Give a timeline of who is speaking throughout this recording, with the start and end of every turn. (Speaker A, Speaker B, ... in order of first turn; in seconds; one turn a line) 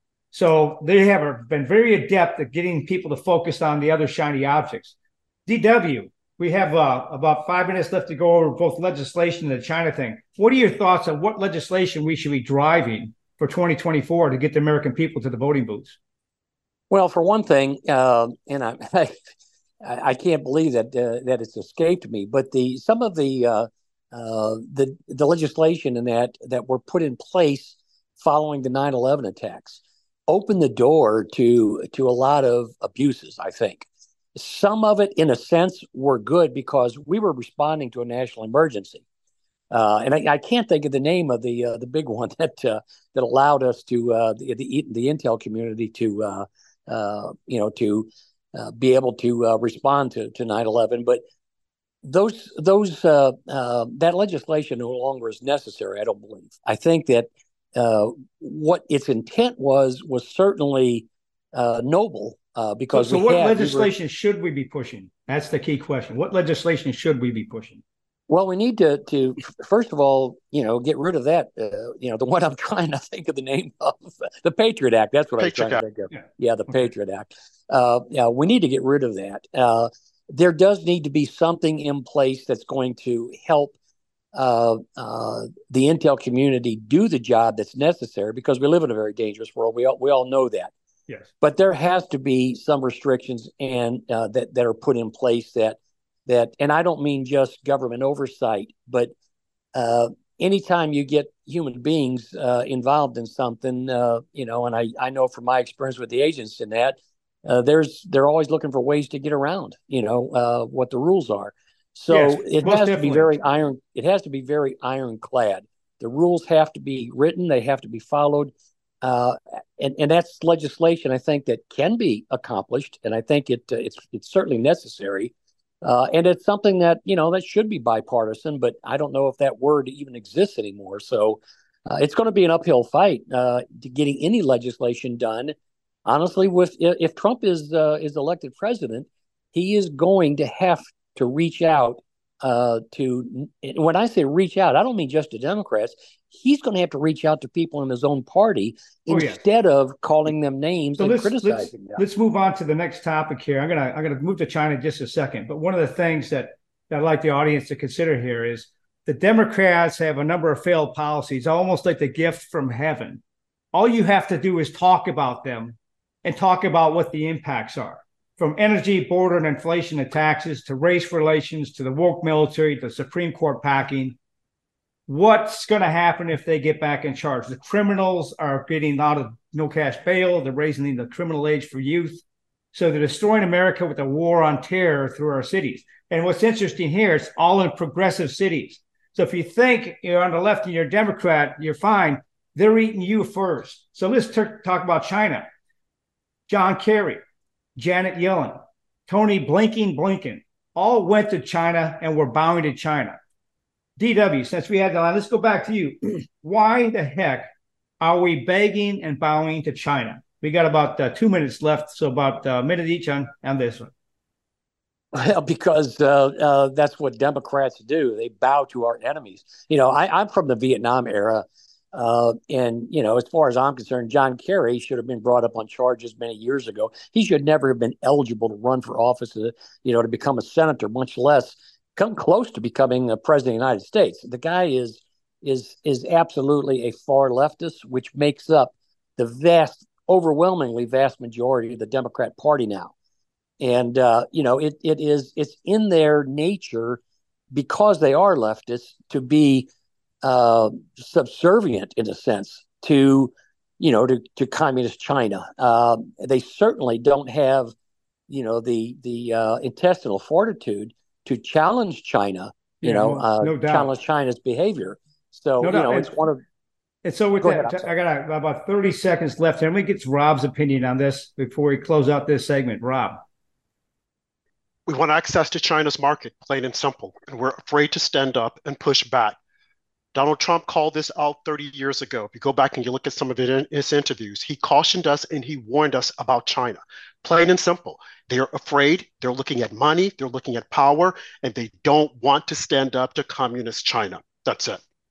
Speaker A: 0.3-4.9
Speaker A: 5.5-16.0
Speaker B: 16.9-19.2
Speaker B: 19.8-39.0
Speaker B: 39.7-51.2
Speaker B: 52.0-63.9
Speaker A: 62.9-67.8
Speaker B: 68.3-83.7
Speaker C: 75.4-75.8
Speaker A: 76.1-76.9
Speaker B: 84.3-90.7
Speaker B: 91.4-99.1
Speaker B: 99.7-135.5
Speaker A: 112.1-113.3
Speaker B: 136.1-152.0
Speaker A: 149.1-149.4
Speaker A: 151.0-163.2
Speaker A: 163.7-174.2
Speaker A: 175.1-195.5
Speaker A: 196.5-197.2
Speaker A: 197.8-203.2
Speaker A: 204.0-207.5
Speaker A: 208.0-213.9
Speaker B: 215.1-242.9
Speaker B: 243.6-247.0
Speaker B: 247.5-249.7
Speaker B: 250.2-257.7
Speaker B: 258.3-266.4
Speaker A: 262.8-263.9
Speaker A: 265.6-266.1
Speaker A: 267.0-273.2
Speaker B: 267.4-267.9
Speaker C: 274.9-279.4
Speaker C: 280.1-294.8